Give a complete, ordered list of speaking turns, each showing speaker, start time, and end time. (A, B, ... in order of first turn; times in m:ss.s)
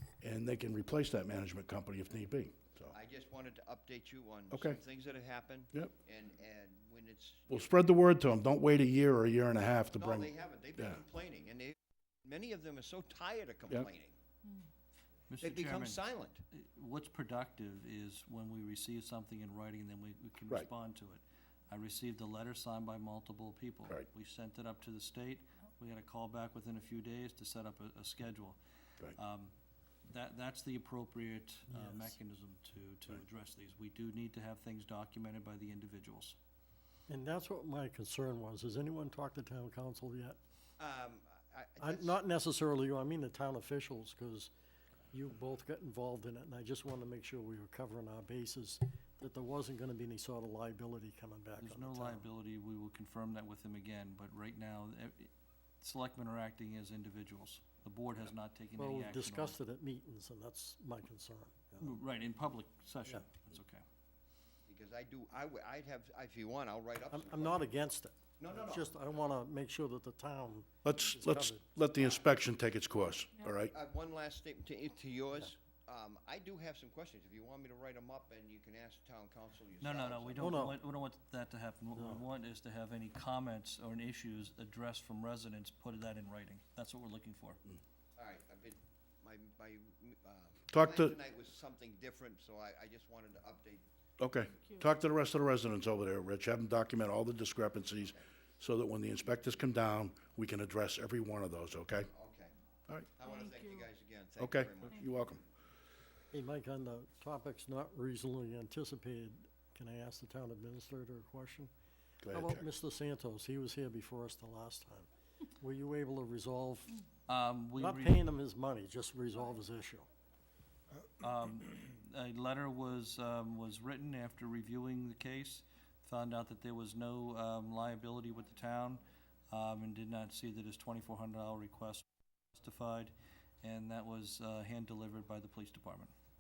0:00.2-0:02.9 A
0:02.9-0:07.7 B
0:04.5-0:04.8 A
0:07.5-0:11.0 A
0:10.0-0:14.2 B
0:15.3-0:28.6 C
0:15.4-0:16.4 B
0:29.1-0:29.5 C
0:30.1-0:36.4 C
0:31.7-0:32.2 D
0:37.1-0:40.4 D
0:40.8-0:42.2 B
0:41.8-0:44.5 D
0:45.1-0:52.3 D
0:51.6-0:59.6 C
0:58.8-1:02.0 D
1:01.8-1:03.8 C
1:04.7-1:07.7 B
1:07.1-1:11.6 D
1:08.4-1:08.9 B
1:10.8-1:13.7 A
1:13.7-1:20.6 B
1:19.8-1:27.6 C
1:20.4-1:20.8 D
1:22.0-1:22.2 D
1:28.2-1:33.8 B
1:30.7-1:31.2 A
1:34.2-1:42.1 A
1:42.1-1:42.5 B
1:43.1-1:45.1 B
1:44.4-1:45.4 A
1:46.3-1:51.7 D
1:52.2-1:52.7 A
1:52.3-1:55.1 D
1:55.6-1:57.0 D
1:57.3-1:58.3 C
1:57.8-2:00.1 D
2:01.2-2:12.0 C
2:12.6-2:16.1 C